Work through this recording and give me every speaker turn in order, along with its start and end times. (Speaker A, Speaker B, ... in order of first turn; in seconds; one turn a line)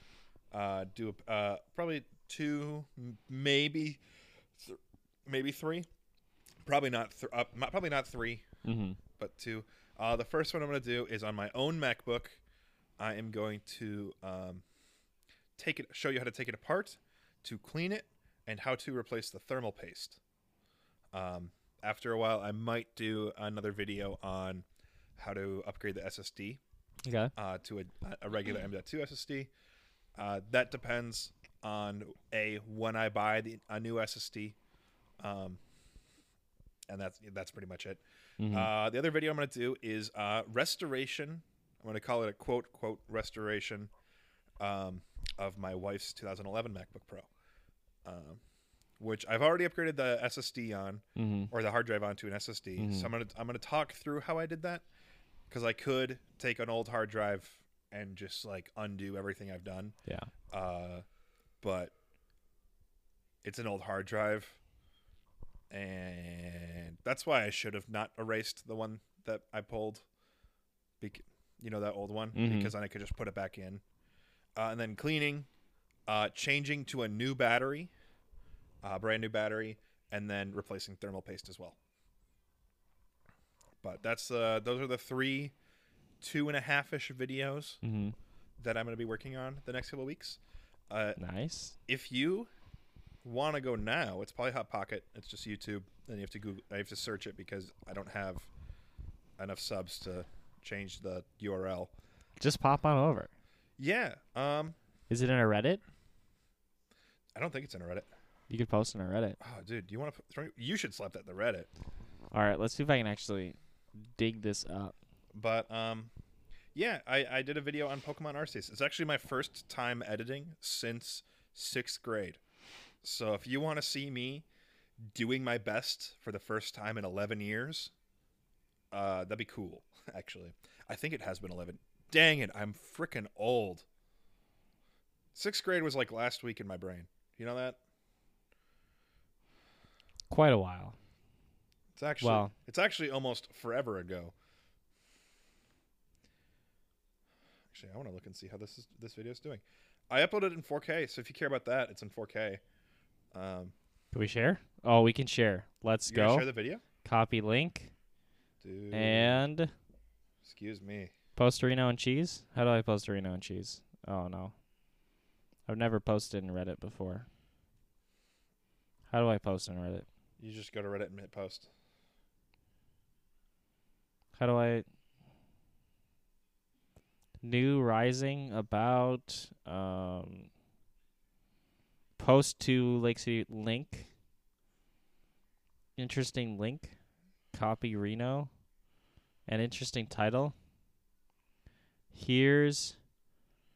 Speaker A: 0.5-4.0
Speaker A: 4.6-5.9
Speaker A: 6.6-8.4
Speaker B: 8.7-9.0
Speaker A: 9.2-12.4
Speaker A: 13.0-14.6
Speaker A: 15.6-20.2
Speaker A: 21.1-24.6
Speaker A: 25.2-26.6
Speaker B: 27.1-27.3
Speaker A: 27.4-29.5
Speaker A: 30.2-34.6
Speaker A: 35.2-35.6
Speaker A: 36.9-43.9
Speaker B: 38.4-38.7
Speaker A: 44.6-47.3
Speaker A: 48.0-48.4
Speaker A: 49.0-54.8
Speaker B: 51.2-51.5
Speaker B: 52.8-53.1
Speaker A: 55.5-60.0
Speaker A: 60.5-61.0
Speaker A: 61.6-61.9
Speaker A: 63.4-64.6
Speaker A: 65.7-70.0
Speaker A: 71.0-73.8
Speaker B: 72.3-72.7
Speaker A: 74.6-75.5
Speaker A: 76.1-77.9
Speaker A: 78.8-81.8
Speaker A: 83.8-85.5
Speaker A: 86.2-87.8
Speaker B: 87.8-88.2
Speaker A: 88.6-90.4
Speaker A: 90.9-91.2
Speaker B: 91.2-91.8
Speaker A: 91.9-92.5
Speaker A: 93.2-98.5
Speaker A: 99.4-101.9
Speaker B: 102.4-103.3
Speaker A: 103.8-104.8
Speaker B: 105.1-105.8
Speaker A: 107.3-108.1
Speaker B: 108.5-109.4
Speaker A: 109.4-111.7
Speaker B: 112.3-115.0
Speaker A: 115.3-116.1
Speaker A: 116.8-122.4
Speaker A: 123.0-124.5
Speaker A: 125.0-127.9
Speaker A: 128.9-133.9
Speaker A: 135.3-137.8
Speaker B: 140.3-140.9
Speaker A: 141.9-144.3
Speaker B: 142.2-142.5
Speaker A: 147.7-152.6
Speaker A: 153.3-153.7
Speaker B: 154.1-156.5
Speaker A: 156.1-156.8
Speaker B: 157.0-157.9
Speaker A: 158.6-159.4
Speaker B: 158.9-159.7
Speaker A: 160.4-161.1
Speaker B: 161.4-164.5
Speaker B: 165.7-167.3
Speaker B: 169.1-170.1
Speaker A: 170.4-171.7
Speaker B: 174.4-174.8
Speaker B: 177.4-180.5
Speaker B: 182.2-184.1
Speaker B: 186.0-186.9
Speaker B: 187.5-188.5
Speaker B: 189.5-190.5
Speaker B: 192.1-193.0